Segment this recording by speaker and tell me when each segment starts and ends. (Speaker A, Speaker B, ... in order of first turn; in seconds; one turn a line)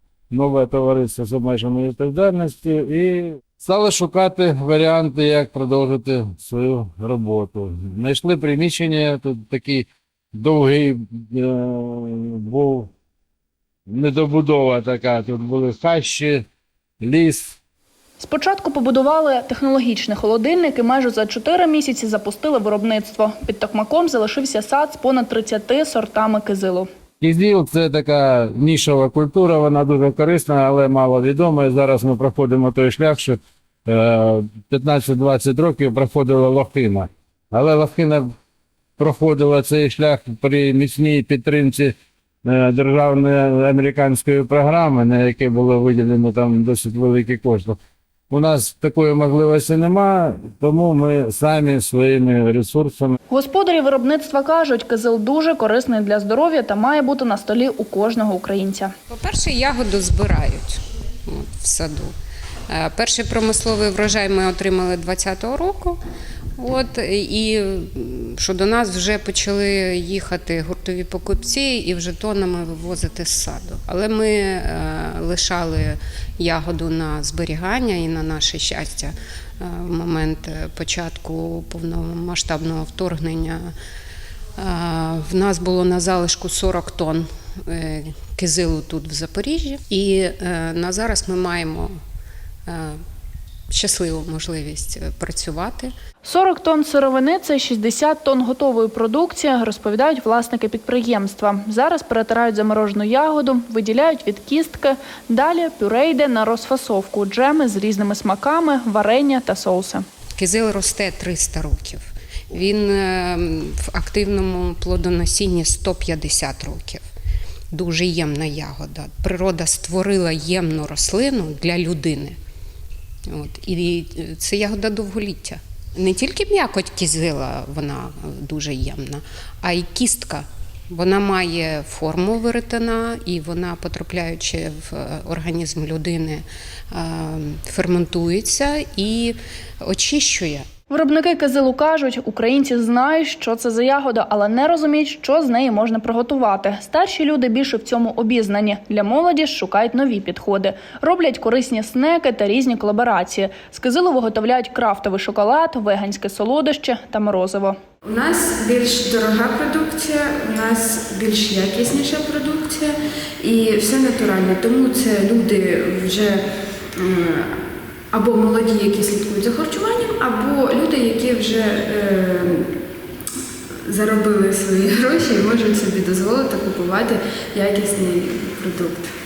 Speaker A: 0.3-12.9
Speaker A: 13.9-16.5
Speaker A: 17.0-17.6
Speaker B: 18.2-26.9
Speaker A: 27.2-38.3
Speaker A: 39.0-47.8
Speaker A: 48.3-53.1
Speaker B: 53.3-58.9
Speaker C: 59.1-62.1
Speaker C: 62.7-66.0
Speaker C: 66.6-83.7
Speaker C: 84.6-91.9
Speaker C: 92.7-93.0
Speaker C: 93.7-95.9
Speaker B: 96.2-110.0
Speaker C: 110.4-117.0
Speaker C: 117.7-122.4
Speaker C: 123.3-140.7
Speaker B: 140.9-157.8
Speaker D: 158.1-167.6
Speaker D: 168.1-172.7
Speaker D: 173.8-179.1